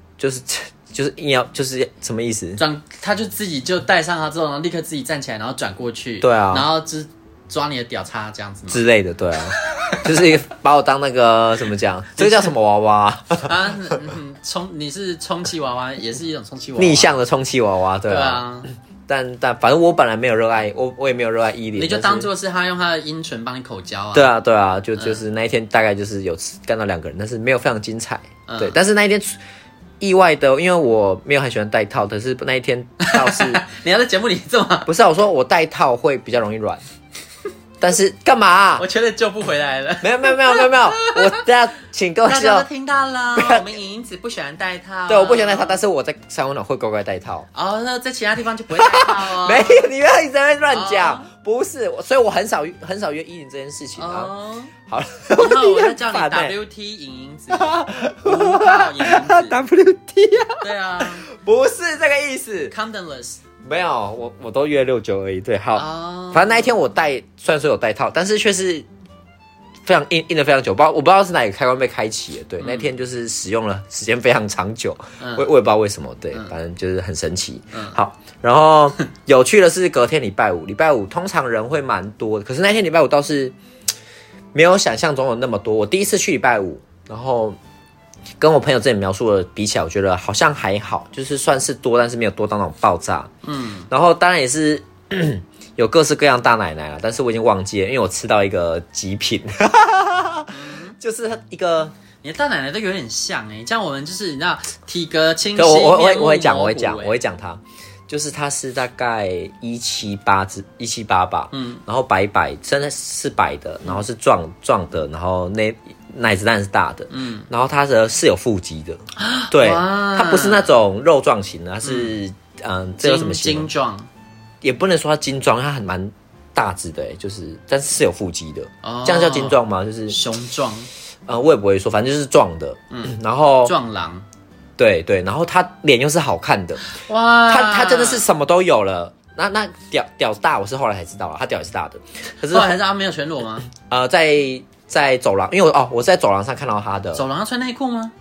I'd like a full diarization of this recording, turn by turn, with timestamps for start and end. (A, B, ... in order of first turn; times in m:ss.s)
0:00.2-0:02.6 A
0:02.6-0:08.8 B
0:06.2-0:06.7 A
0:08.7-0:13.9 A
0:12.2-0:12.5 B
0:13.4-0:17.2 B
0:16.8-0:18.5 A
0:18.1-0:18.7 B
0:19.1-0:22.3 A
0:21.8-0:24.3 B
0:24.1-0:29.4 A
0:25.0-0:25.2 B
0:28.5-0:28.8 B
0:30.0-0:33.6 A
0:33.0-0:34.9 B
0:34.9-0:36.8 A
0:37.8-0:38.9 A
0:38.8-0:41.4 B
0:40.0-0:42.7 A
0:42.2-0:45.8 B
0:43.4-0:43.7 A
0:45.1-0:47.5 A
0:47.5-0:49.9 B
0:48.8-0:54.3 A
0:50.7-0:51.3 B
0:54.0-0:54.7 B
0:54.9-0:56.5 A
0:55.4-0:59.6 B
0:57.5-1:02.7 A
1:00.6-1:01.3 B
1:02.7-1:03.4 B
1:03.6-1:08.9 A
1:05.8-1:06.7 B
1:09.8-1:23.6 A
1:12.6-1:12.9 B
1:15.2-1:15.5 B
1:24.5-1:27.6 A
1:28.4-1:33.3 A
1:33.4-1:33.9 B
1:33.9-1:41.9 A
1:40.5-1:41.0 B
1:42.2-1:47.2 B
1:45.6-2:03.7 A
1:51.5-1:51.8 B
1:57.1-1:57.5 B
1:59.2-2:00.7 B
2:01.8-2:02.2 B
2:03.0-2:04.1 B
2:04.6-2:10.2 A
2:08.8-2:10.9 B
2:11.3-2:13.8 A
2:12.9-2:14.3 B
2:14.8-2:16.8 A
2:16.9-2:18.3 B
2:17.5-2:22.8 A
2:22.4-2:23.7 B
2:23.7-2:27.2 A
2:27.1-2:28.1 B